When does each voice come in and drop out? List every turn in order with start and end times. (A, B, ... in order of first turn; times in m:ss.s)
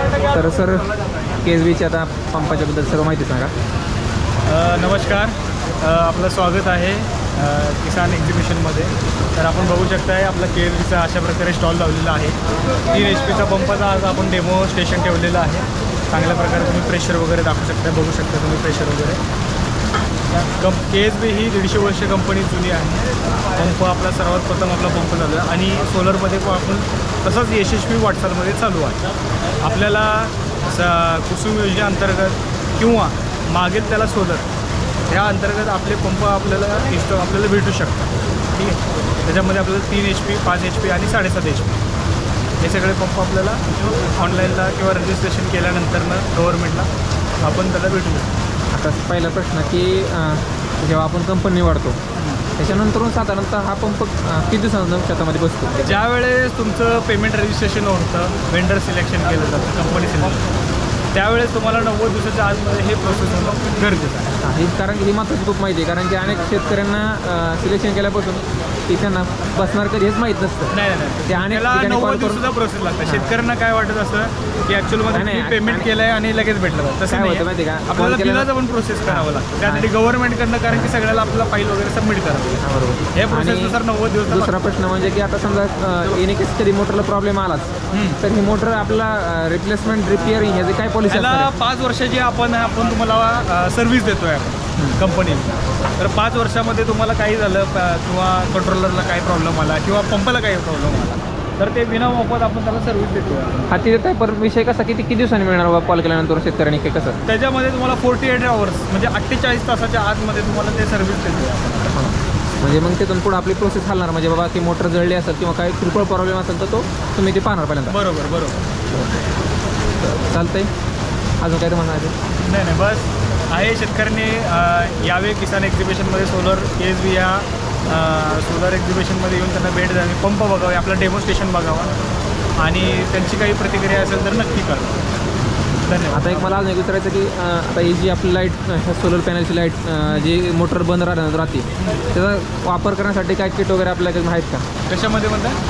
0:00.3-0:00.9 A
0:01.4-0:03.5 A
0:04.4-0:12.4 B
0:12.9-0:19.2 B
0:20.6-0:29.0 B
0:29.6-0:34.5 B
0:35.1-0:41.8 B
0:42.6-0:46.9 B
0:47.4-0:48.3 B
0:48.7-0:52.0 A
0:52.1-0:52.4 B
0:52.6-0:56.0 A
0:55.8-1:00.4 B
1:01.1-1:04.4 B
1:04.4-1:12.4 A
1:10.7-1:22.6 B
1:13.0-1:13.3 A
1:15.1-1:15.9 A
1:17.1-1:18.5 A
1:19.1-1:19.9 A
1:22.6-1:31.5 A
1:23.1-1:24.5 B
1:27.9-1:28.2 B
1:31.1-1:43.9 B
1:43.7-1:47.2 A
1:47.2-1:51.9 B
1:51.9-1:58.0 A
1:57.9-1:58.6 B
1:58.9-1:59.2 A
2:00.0-2:00.7 A
2:01.4-2:02.1 A
2:02.4-2:12.0 B
2:12.6-2:15.0 B
2:15.8-2:16.6 B
2:16.1-2:24.7 A
2:20.0-2:20.3 B
2:21.8-2:22.0 B
2:24.9-2:25.6 B